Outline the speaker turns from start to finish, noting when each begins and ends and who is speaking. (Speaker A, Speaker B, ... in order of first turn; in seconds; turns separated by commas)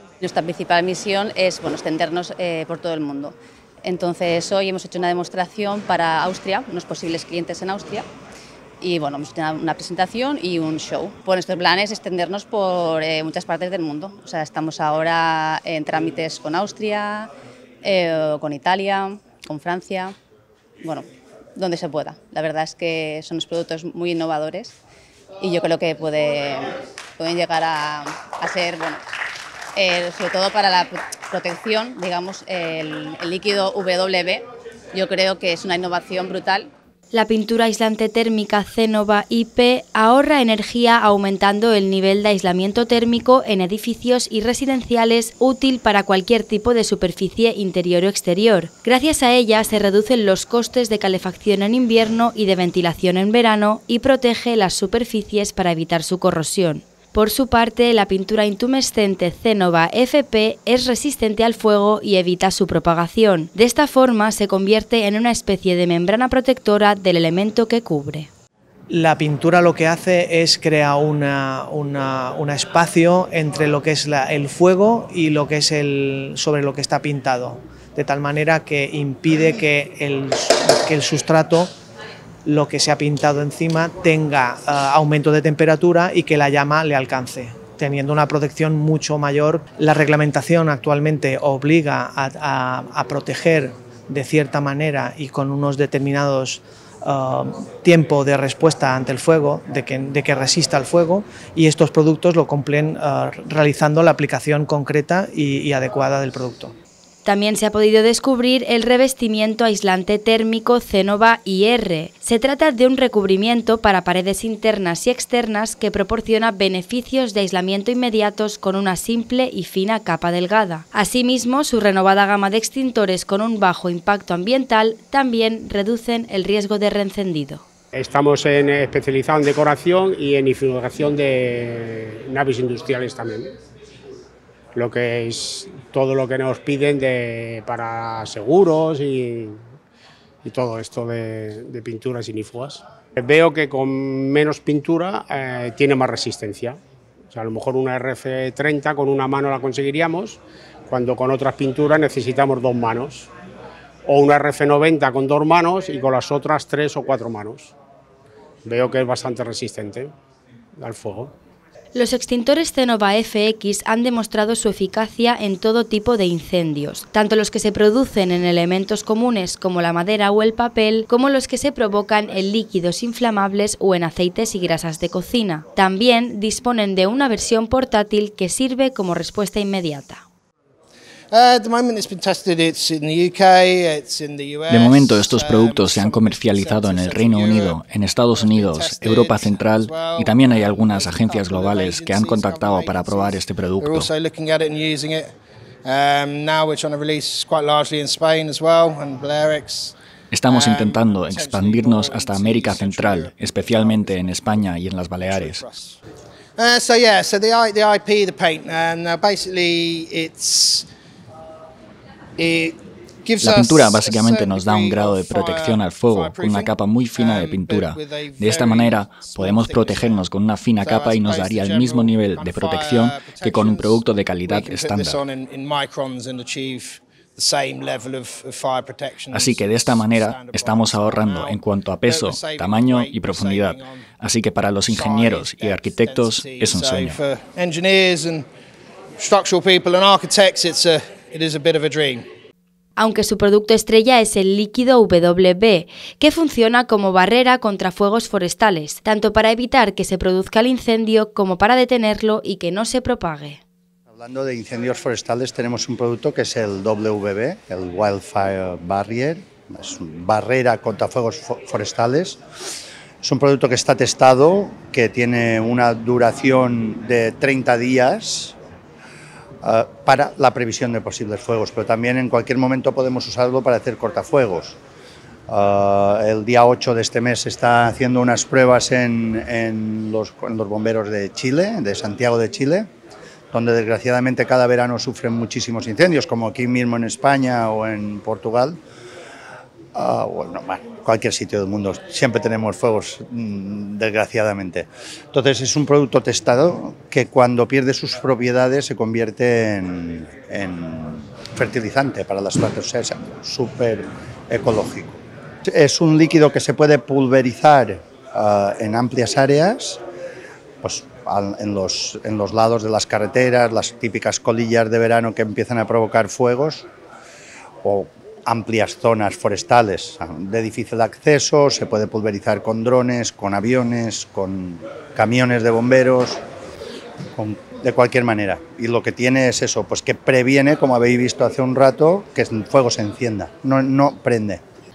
Speaker A: 0.2-8.1, Speaker A: 8.8-17.3, Speaker A: 17.8-20.1, Speaker A: 20.8-24.8, Speaker A: 25.4-29.0, Speaker A: 29.8-36.7, Speaker B: 37.1-68.3, Speaker C: 68.9-81.7, Speaker C: 82.4-106.7, Speaker B: 107.2-127.6, Speaker D: 127.9-133.5, Speaker D: 134.7-139.6, Speaker D: 140.4-146.8, Speaker D: 147.3-153.3, Speaker D: 154.1-157.7, Speaker D: 158.6-160.1, Speaker D: 160.8-161.3, Speaker B: 161.9-180.2, Speaker E: 181.3-195.3, Speaker F: 184.7-194.1, Speaker E: 195.8-199.9, Speaker F: 200.3-205.6, Speaker E: 200.5-204.3, Speaker E: 205.2-206.0, Speaker E: 206.6-210.8, Speaker E: 212.4-220.3, Speaker F: 213.4-225.2, Speaker E: 220.8-234.0, Speaker F: 229.3-237.2, Speaker E: 234.8-238.4, Speaker E: 239.2-242.2, Speaker B: 243.0-253.6, Speaker G: 254.1-262.4, Speaker G: 263.2-268.6, Speaker G: 269.6-274.8, Speaker G: 275.5-282.9, Speaker G: 283.5-288.8, Speaker G: 289.9-310.0, Speaker G: 310.8-316.9, Speaker G: 317.8-326.4, Speaker G: 327.4-334.6